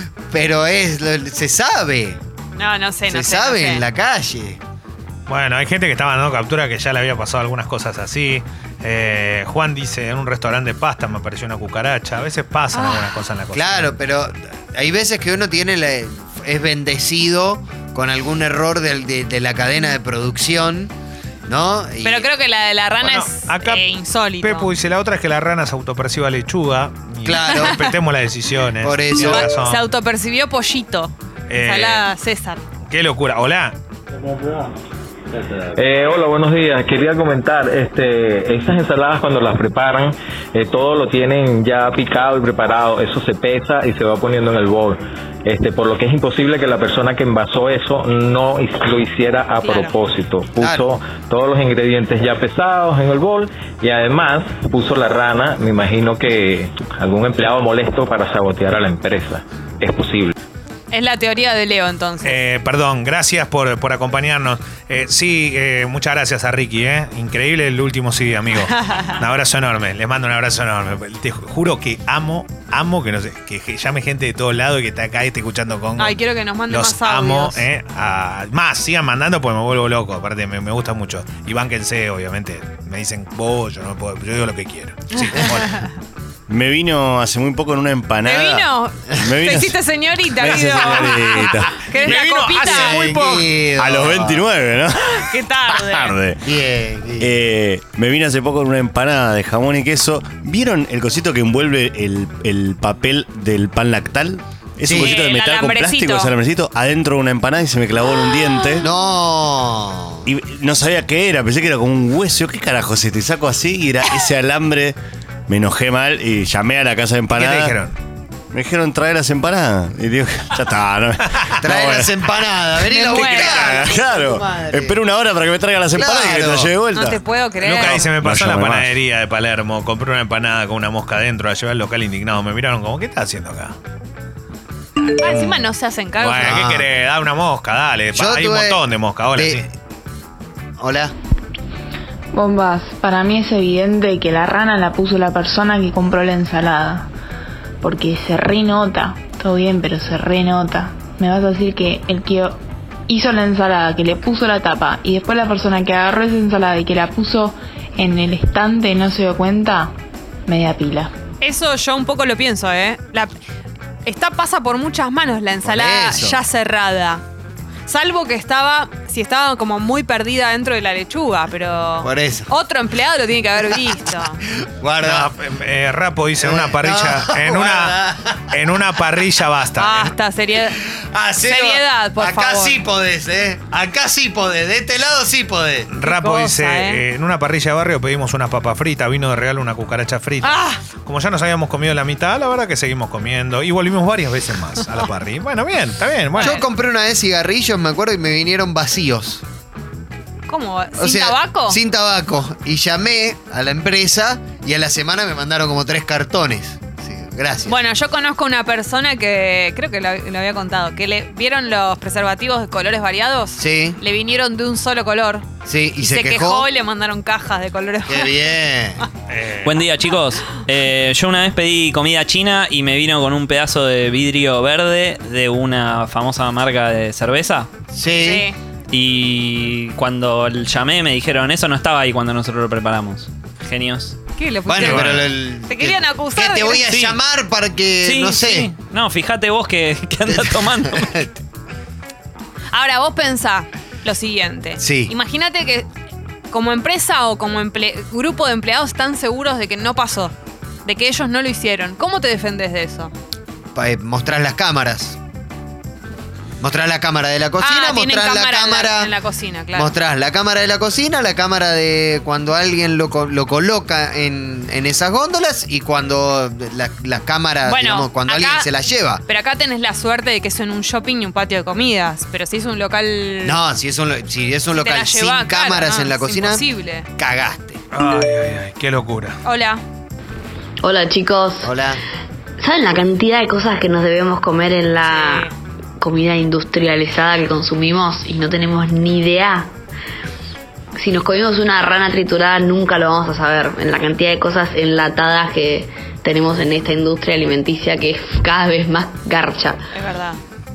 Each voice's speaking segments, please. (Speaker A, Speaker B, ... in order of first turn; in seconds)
Speaker A: 0.3-2.2, 3.1-4.6, 13.5-20.9, 21.5-22.3, 27.2-27.8, 28.8-29.5, 50.6-50.8, 92.6-94.5, 96.4-97.5, 104.8-105.2, 108.8-110.3, 121.6-125.0, 125.9-126.7, 136.4-136.8, 138.1-138.8, 139.3-139.7, 140.8-141.1, 165.6-166.4, 172.0-172.5, 174.6-175.3, 176.4-178.7, 180.8-185.9, 196.4-199.4, 201.0-207.8, 213.6-214.0, 215.6-216.7, 218.1-219.0, 227.9-228.5, 234.7-238.7, 240.3-241.3, 244.8-245.1, 253.7-255.2, 256.6-259.1, 259.7-269.2, 273.4-276.6, 277.2-277.8, 281.6-282.0
Speaker B: 2.5-3.8, 12.7-13.2, 22.0-24.7, 27.4-27.9, 29.2-32.6, 49.6-49.9, 60.9-62.4, 68.7-69.1, 76.0-77.6, 85.2-85.9, 88.2-93.0, 95.1-96.2, 105.0-106.3, 122.9-123.9, 126.9-128.0, 135.2-136.6, 161.4-163.3, 164.0-167.2, 167.9-174.4, 179.8-180.8, 181.4-182.8, 186.0-187.0, 190.4-190.8, 196.3-196.6, 200.5-201.8, 207.7-215.4, 216.0-218.3, 228.2-228.6, 234.4-237.1, 242.7-245.9, 246.5-250.3, 250.8-253.1, 257.6-259.9, 267.6-268.7, 269.2-273.6, 274.7-277.1, 279.4-279.8, 285.0-285.5, 299.9-300.4
Speaker C: 5.3-13.9, 23.0-23.8, 24.4-29.8, 31.5-32.1, 32.9-33.7, 62.2-85.8, 90.4-93.5, 117.3-117.9, 127.6-133.7, 135.0-139.6, 175.0-180.1, 185.9-196.6, 219.3-219.8, 234.8-235.2, 277.9-279.4
Speaker D: 35.7-60.3
Speaker E: 86.5-89.8, 90.3-91.8, 93.8-96.5, 97.2-108.9, 110.2-115.0, 115.5-117.8, 118.5-122.1, 123.1-127.2, 127.7-128.9
Speaker F: 142.3-147.1, 147.8-152.6, 153.1-159.9, 160.5-161.1
Speaker G: 219.6-227.7, 228.9-234.2, 238.0-241.1
Speaker H: 280.8-281.8, 282.6-289.7, 291.0-299.8